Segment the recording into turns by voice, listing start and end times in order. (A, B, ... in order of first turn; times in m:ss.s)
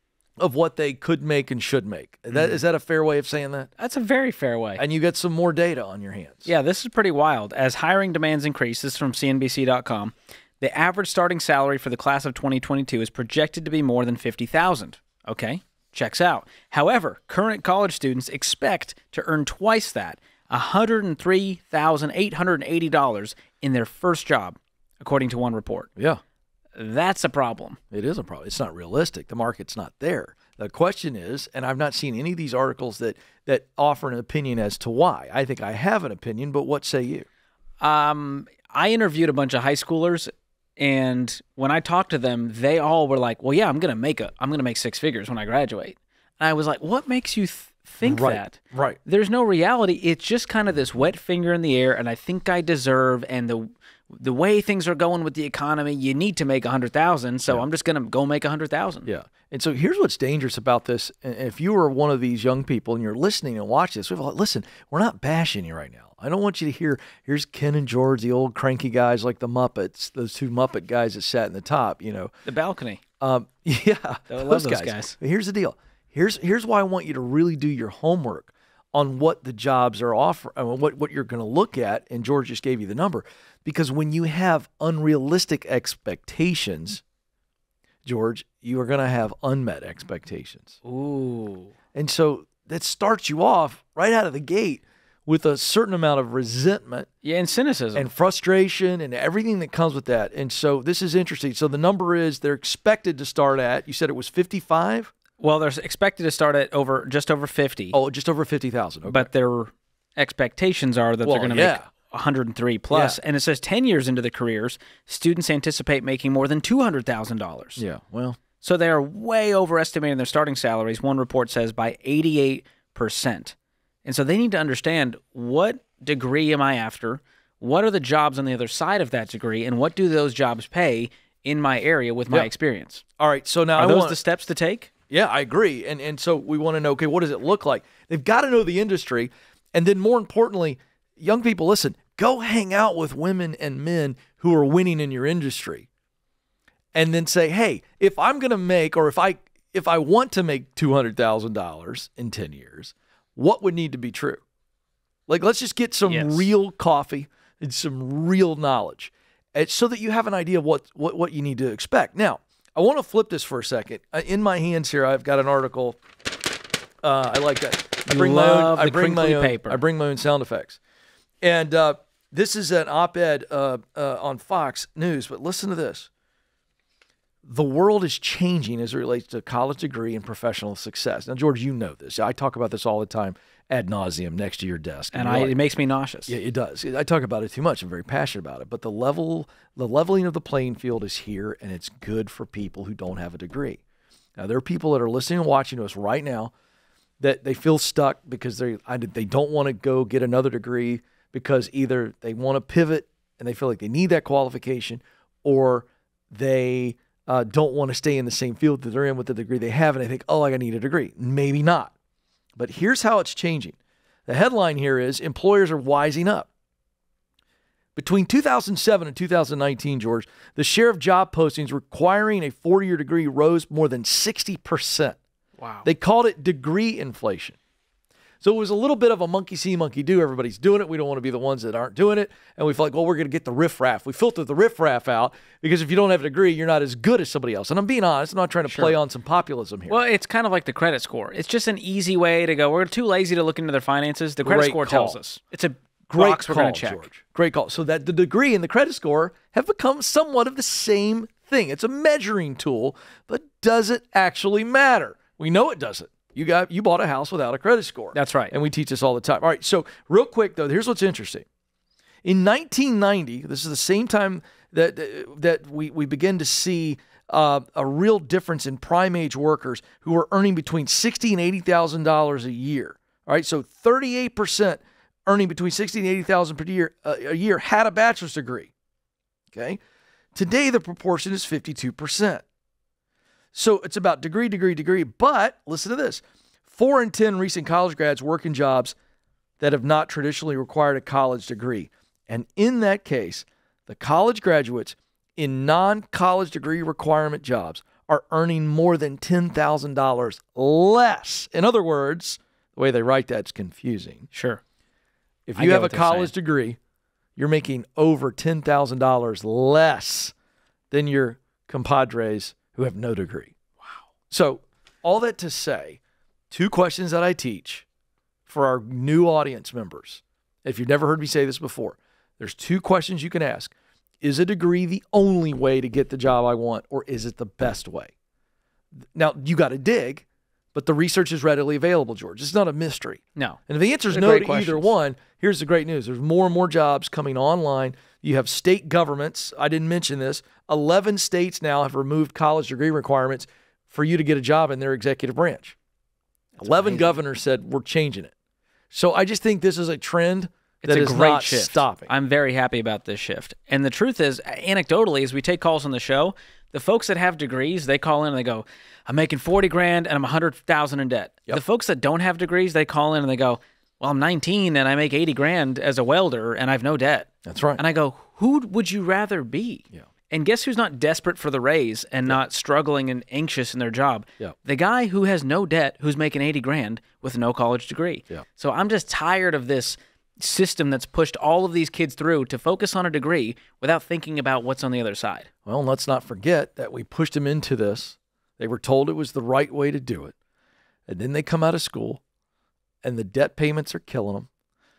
0:00.4-0:03.7 A
0:02.3-0:02.6 B
0:03.8-0:04.8 B
0:04.8-0:06.5 A
0:06.5-0:25.9 B
0:26.0-0:26.2 A
0:26.8-0:27.8 B
0:27.9-0:37.3 A
0:37.8-0:59.1 B
0:48.0-0:49.0 A
0:59.0-1:12.3 A
1:12.4-1:13.0 B
1:13.2-1:27.0 A
1:14.3-1:15.2 B
1:28.0-1:30.8 A
1:30.8-1:31.7 B
1:31.9-1:37.1 A
1:37.2-1:38.1 B
1:37.9-1:45.1 A
1:45.4-1:48.0 B
1:47.9-1:49.3 A
1:49.0-1:57.8 B
1:51.2-1:51.8 A
1:52.9-1:53.2 A
1:57.8-1:58.4 A
1:58.6-2:13.0 B
2:13.2-2:14.2 A
2:13.8-2:14.9 B
2:15.1-2:25.9 A
2:26.9-2:34.4 A
2:35.3-2:46.0 A
2:36.1-2:36.5 B
2:47.0-2:50.8 A
2:48.1-2:49.8 B
2:51.4-2:56.1 A
2:57.4-3:05.6 A
3:05.1-3:06.3 B
3:06.3-3:13.8 A
3:14.4-3:16.5 A
3:17.2-3:31.9 A
3:32.6-3:36.5 A
3:38.0-3:45.2 A
3:45.6-3:45.9 B
3:45.8-3:47.6 A
3:48.4-4:00.0 A
3:58.7-3:58.9 B
3:59.9-4:07.1 B
4:04.4-4:05.2 A
4:06.1-4:21.4 A
4:18.1-4:18.5 B
4:22.2-4:38.7 A
4:39.5-4:39.8 A
4:40.4-4:42.4 A
4:43.5-4:49.0 A
4:49.6-5:04.3 A
5:04.3-5:04.6 B
5:05.5-5:06.8 A
5:05.6-5:06.3 B
5:07.4-5:10.3 A
5:10.9-5:13.5 A
5:14.3-5:16.0 A
5:16.5-5:17.8 A
5:18.5-5:28.1 A
5:29.2-5:45.8 A
5:34.1-5:34.9 B
5:46.6-5:47.2 B
5:46.6-5:48.3 A
5:48.9-5:52.1 A
5:50.8-6:25.5 B
6:07.4-6:07.8 A
6:25.7-6:30.3 A
6:31.1-6:32.2 A
6:33.0-6:34.5 A